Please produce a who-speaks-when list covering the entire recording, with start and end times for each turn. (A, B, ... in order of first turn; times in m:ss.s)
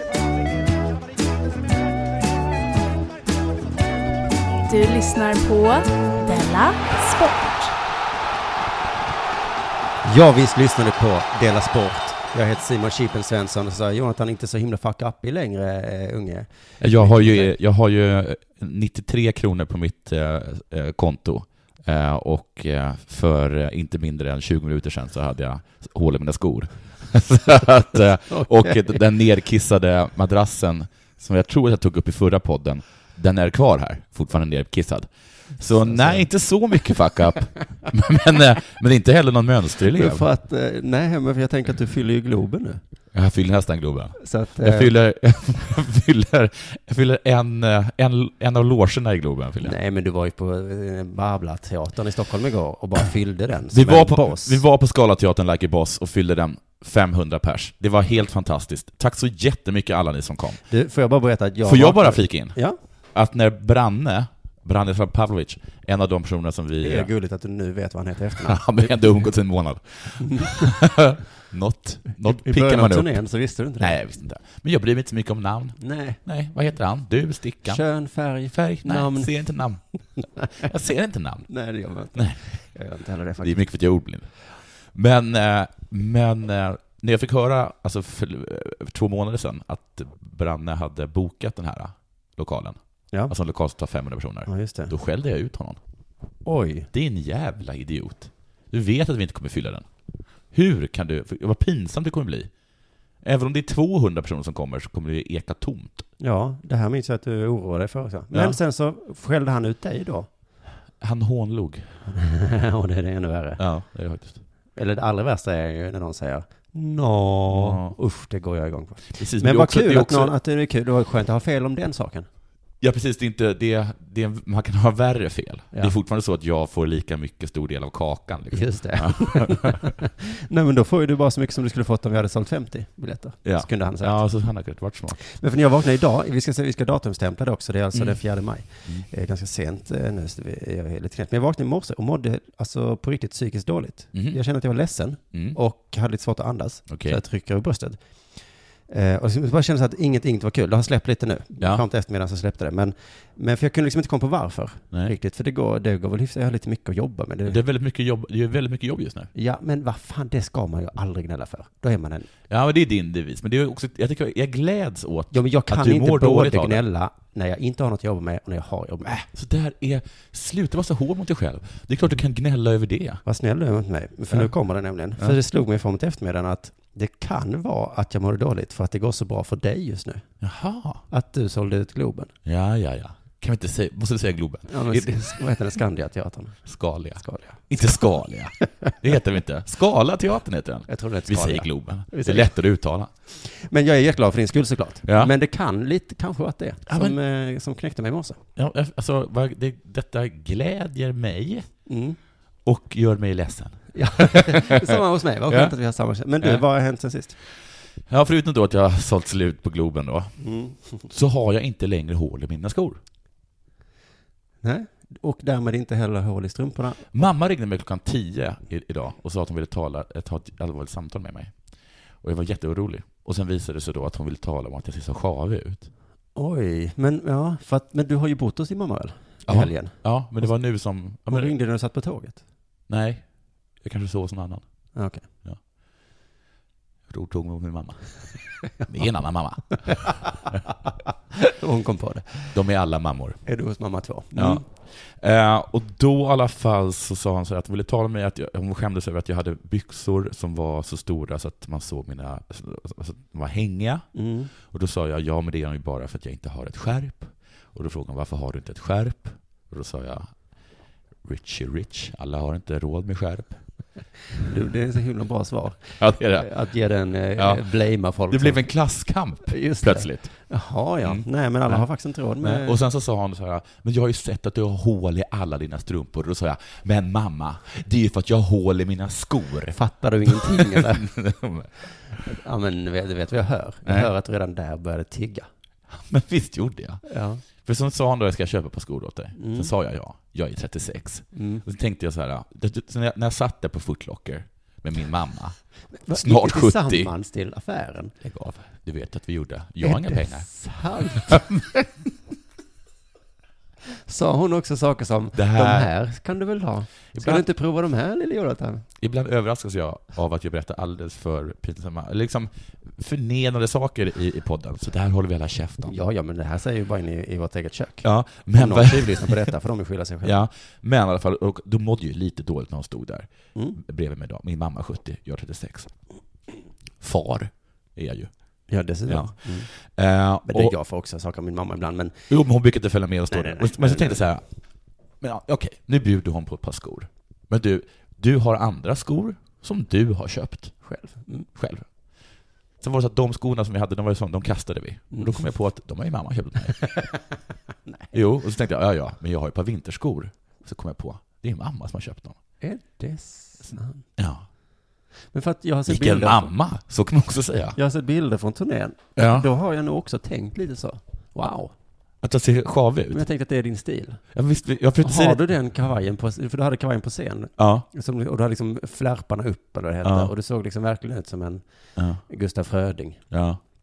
0:04.7-0:07.7 A
0:10.0-0:17.6 B
0:16.8-0:40.3 C
0:28.3-0:29.0 B
0:35.8-0:36.3 B
0:39.9-0:42.8 B
0:43.1-0:49.8 C
0:44.2-0:44.9 B
0:49.6-0:54.6 B
0:53.7-1:00.6 C
1:00.7-1:02.8 B
1:01.6-1:07.1 C
1:06.8-1:09.0 B
1:08.4-1:13.2 C
1:10.2-1:10.8 B
1:12.1-1:14.0 B
1:13.8-1:17.8 C
1:15.8-1:16.2 B
1:17.7-1:19.3 B
1:18.4-1:21.5 C
1:21.5-1:23.6 B
1:22.1-1:22.6 C
1:23.4-1:35.8 C
1:34.5-1:34.9 B
1:36.4-1:36.9 B
1:36.9-1:39.9 C
1:40.4-1:42.5 C
1:43.2-1:46.1 C
1:46.2-1:50.3 B
1:48.3-1:48.6 C
1:51.0-1:52.0 C
1:52.1-1:53.6 B
1:53.6-1:54.4 C
1:54.8-2:02.3 B
1:57.5-1:58.0 C
1:59.2-2:00.3 C
2:02.8-2:09.8 C
2:08.5-2:14.4 B
2:13.4-2:15.2 C
2:15.2-2:37.6 B
2:17.9-2:19.1 C
2:24.1-2:24.4 C
2:25.3-2:25.6 C
2:26.9-2:27.2 C
2:37.5-2:39.3 C
2:39.3-2:42.3 B
2:42.5-2:46.8 C
2:45.3-2:49.2 B
2:49.1-2:53.2 C
2:53.2-3:00.3 B
3:00.4-3:01.0 C
3:01.1-3:02.3 B
3:02.4-3:05.4 C
3:04.7-3:07.7 B
3:06.7-3:13.1 C
3:10.9-3:12.6 B
3:13.3-3:18.4 B
3:15.1-3:15.3 C
3:16.9-3:17.2 C
3:18.6-3:21.9 C
3:21.9-3:22.2 B
3:22.6-3:25.0 C
3:23.9-3:27.4 B
3:25.5-3:25.7 C
3:28.1-3:33.0 C
3:30.4-3:31.1 B
3:34.6-3:37.3 B
3:37.1-3:45.9 C
3:46.4-3:50.6 B
3:49.4-3:51.5 C
3:51.3-3:52.4 B
3:52.9-3:55.6 C
3:54.9-3:55.2 B
3:57.1-4:00.3 C
4:01.6-4:02.6 B
4:02.5-4:03.6 C
4:03.4-4:04.7 B
4:04.3-4:23.7 C
4:14.1-4:14.5 B
4:24.4-4:32.8 B
4:26.0-4:26.6 C
4:27.4-4:27.6 C
4:28.3-4:30.5 C
4:31.0-4:31.9 C
4:32.4-4:41.9 C
4:39.7-4:41.1 B
4:42.2-4:45.5 B
4:45.9-4:57.1 C
4:47.0-4:47.4 B
4:49.4-4:49.7 B
4:51.3-4:51.6 B
4:56.0-4:58.1 B
4:58.2-5:01.6 C
4:59.8-5:01.5 B
5:04.1-5:08.9 B
5:05.4-5:05.9 C
5:07.1-5:07.5 C
5:09.0-5:15.9 C
5:15.9-5:20.4 B
5:18.0-5:19.5 C
5:20.2-5:26.0 C
5:27.0-5:30.8 C
5:28.7-5:29.7 B
5:30.4-5:32.3 B
5:32.3-5:40.8 C
5:33.3-5:34.2 B
5:40.8-5:41.5 B
5:41.6-5:41.9 C
5:42.8-5:47.1 C
5:45.1-5:45.5 B
5:47.9-5:48.1 B
5:48.1-5:52.4 C
5:52.6-5:54.0 B
5:54.2-5:54.5 C
5:55.3-5:56.5 B
5:55.9-5:57.8 C
5:57.8-6:01.7 B
5:59.2-5:59.5 C
6:02.2-6:03.2 C
6:03.1-6:04.2 B
6:04.3-6:05.4 C
6:05.0-6:11.6 B
6:07.6-6:07.9 C
6:10.0-6:10.3 C
6:12.0-6:12.2 C
6:12.2-6:13.2 B
6:13.3-6:13.6 C